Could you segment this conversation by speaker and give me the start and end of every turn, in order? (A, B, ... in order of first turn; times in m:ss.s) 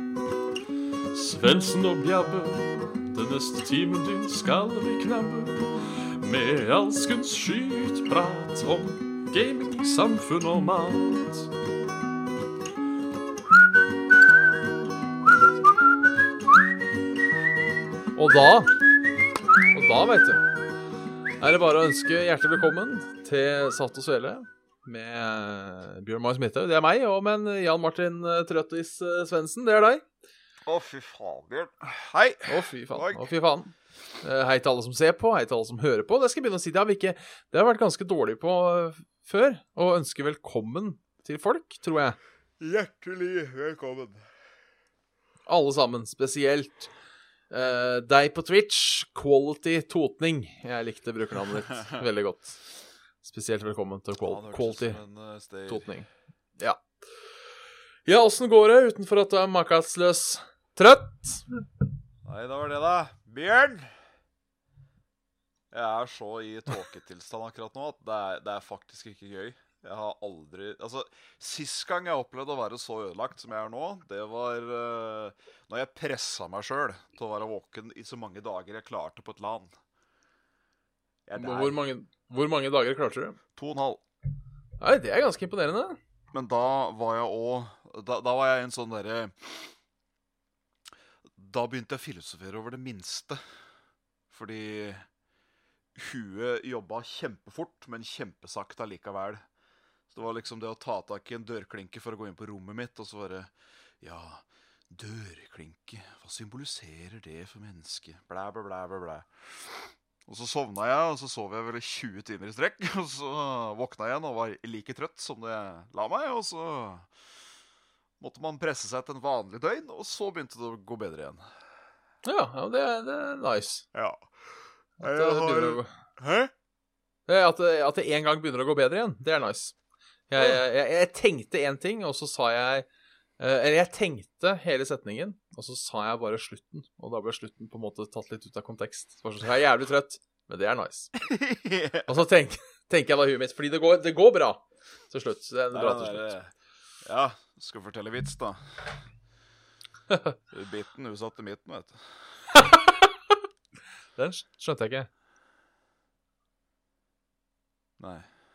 0:01.1-0:11.5 A
0:18.1-0:18.7 B
0:19.7-0:20.4 B
0:21.4-0:30.0 B
0:30.6-0:33.2 C
0:32.5-0:42.2 B
0:42.6-0:44.2 C
0:45.5-0:46.9 B
0:47.5-0:52.6 B
0:53.2-0:55.0 B
0:54.2-0:55.9 C
0:55.7-0:56.1 B
0:58.0-1:01.4 B
1:02.2-1:03.9 C
1:05.7-1:19.7 C
1:21.3-1:21.8 C
1:21.4-1:23.4 B
1:23.6-1:24.0 C
1:24.8-1:26.0 B
1:26.3-1:29.7 C
1:31.4-1:33.4 C
1:34.3-1:35.0 C
1:35.9-1:39.4 C
1:40.1-1:57.1 C
1:58.2-2:01.5 C
2:02.2-2:03.8 B
2:03.9-2:04.3 C
2:05.0-2:05.9 B
2:05.0-2:06.5 C
2:07.3-2:09.7 B
2:10.3-2:12.8 B
2:13.4-2:21.1 B
2:21.2-2:22.2 C
2:22.1-2:26.3 B
2:25.7-2:26.5 C
2:27.0-2:28.8 C
2:30.5-2:32.2 C
2:32.5-2:33.3 B
2:34.2-2:35.1 B
2:38.0-2:38.2 C